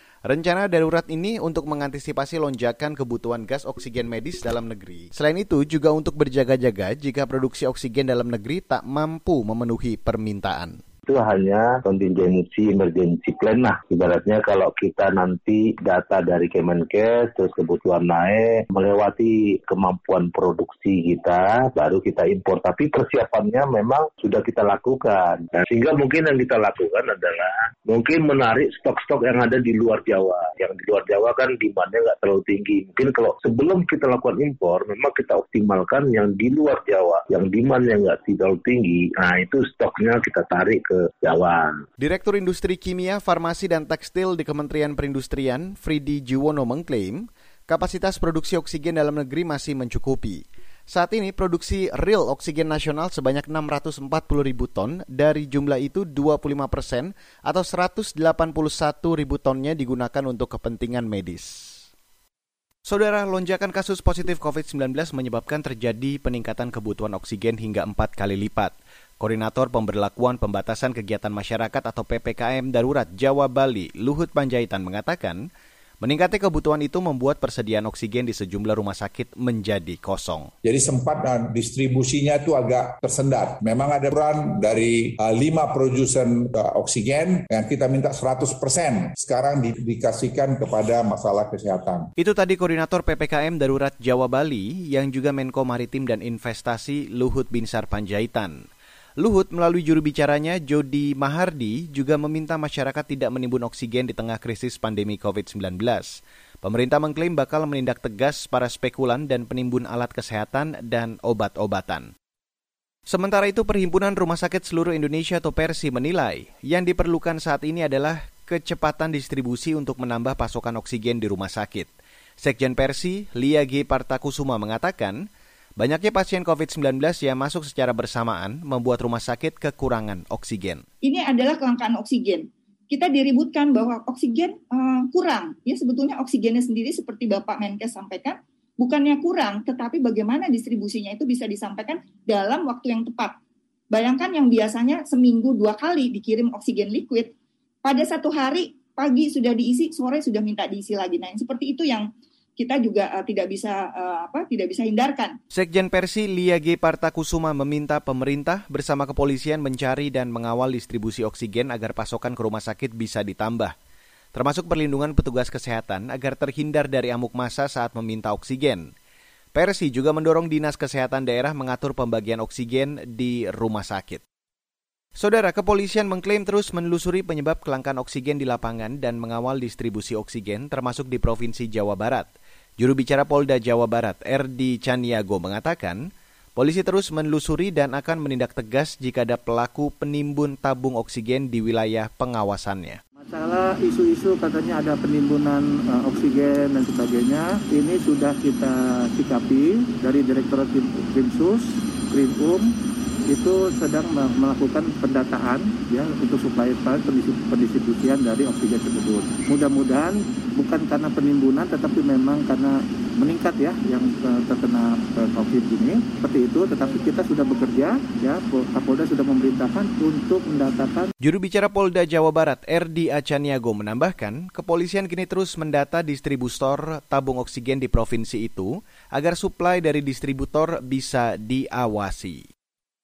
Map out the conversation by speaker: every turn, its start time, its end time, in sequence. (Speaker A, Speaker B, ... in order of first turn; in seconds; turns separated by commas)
Speaker A: 0.3-10.8, Speaker B: 11.1-41.8, Speaker A: 42.0-61.9, Speaker A: 62.9-75.4, Speaker A: 76.0-80.5, Speaker C: 80.6-92.1, Speaker A: 92.2-98.7, Speaker A: 99.2-112.1, Speaker A: 113.1-125.2, Speaker A: 125.8-130.8, Speaker D: 131.0-143.3, Speaker D: 143.9-147.3, Speaker D: 147.8-155.3, Speaker A: 155.5-163.7, Speaker A: 164.3-168.9, Speaker A: 169.6-174.2, Speaker A: 175.2-186.0, Speaker A: 186.6-193.0, Speaker E: 193.2-202.7, Speaker E: 203.3-221.1, Speaker A: 221.2-232.4